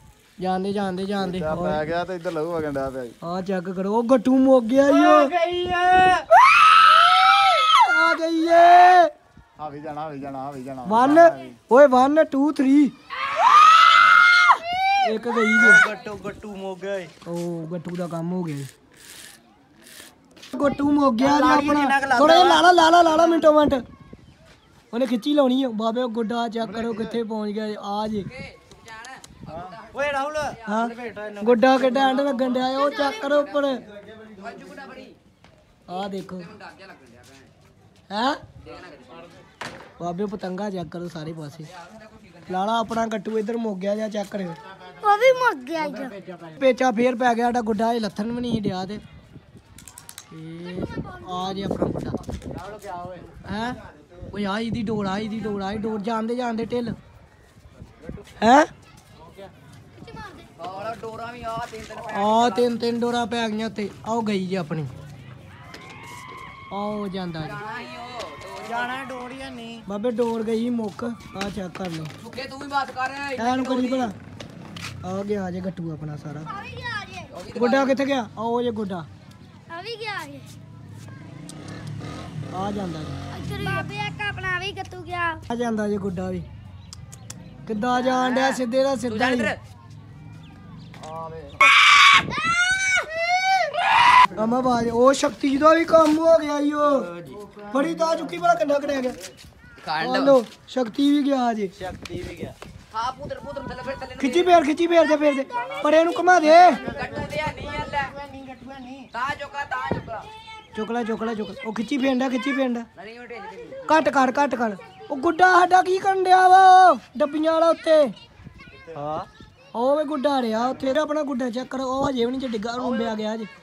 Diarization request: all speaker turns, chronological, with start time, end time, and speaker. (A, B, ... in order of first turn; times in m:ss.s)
0:00.4-0:01.8 A
0:01.2-0:03.2 B
0:03.2-0:05.4 A
0:04.8-0:06.3 C
0:07.5-0:09.1 A
0:09.6-0:11.6 B
0:10.8-0:12.9 A
0:14.9-0:15.8 A
0:15.6-0:17.1 C
0:17.2-0:18.7 A
0:20.5-0:23.8 A
0:21.2-0:23.5 C
0:24.9-0:28.3 A
0:26.6-0:27.2 B
0:28.2-0:31.4 D
0:29.5-0:32.6 C
0:30.6-0:33.8 A
0:32.5-0:35.2 D
0:34.2-0:34.6 B
0:35.9-0:36.5 A
0:35.9-0:37.5 D
0:38.1-0:38.4 A
0:38.6-0:39.4 D
0:40.0-0:41.7 A
0:41.7-0:42.6 D
0:42.5-0:44.6 A
0:44.7-0:45.6 B
0:45.0-0:46.0 E
0:45.7-0:46.6 C
0:46.5-0:49.0 A
0:50.3-0:52.2 A
0:52.5-0:53.3 C
0:53.4-0:53.8 A
0:54.3-0:57.0 A
0:58.0-0:58.3 C
0:58.4-0:58.7 A
0:59.2-0:59.5 C
1:00.0-1:00.5 E
1:00.5-1:02.7 D
1:02.1-1:04.9 A
1:06.7-1:07.6 A
1:07.4-1:09.0 D
1:08.6-1:09.8 C
1:09.8-1:12.1 A
1:12.2-1:14.1 D
1:13.4-1:14.1 A
1:15.0-1:16.6 A
1:16.6-1:17.3 E
1:17.3-1:18.0 D
1:17.5-1:19.1 A
1:19.7-1:20.5 E
1:22.5-1:23.2 A
1:23.3-1:25.4 E
1:25.5-1:26.4 A
1:27.6-1:29.5 A
1:27.8-1:29.6 D
1:31.0-1:31.6 B
1:34.3-1:37.1 A
1:36.9-1:39.1 C
1:37.7-1:39.2 A
1:39.8-1:40.4 D
1:40.0-1:41.7 A
1:41.8-1:42.6 C
1:42.9-1:44.6 D
1:44.2-1:46.9 A
1:45.5-1:47.1 B
1:46.4-1:49.1 C
1:46.7-1:48.1 D
1:49.1-1:50.3 D
1:50.7-1:52.8 A
1:53.0-1:54.0 D
1:53.9-1:58.1 A
1:58.7-1:59.0 B
1:58.9-1:59.3 C
1:59.7-2:03.5 A
2:02.8-2:03.2 C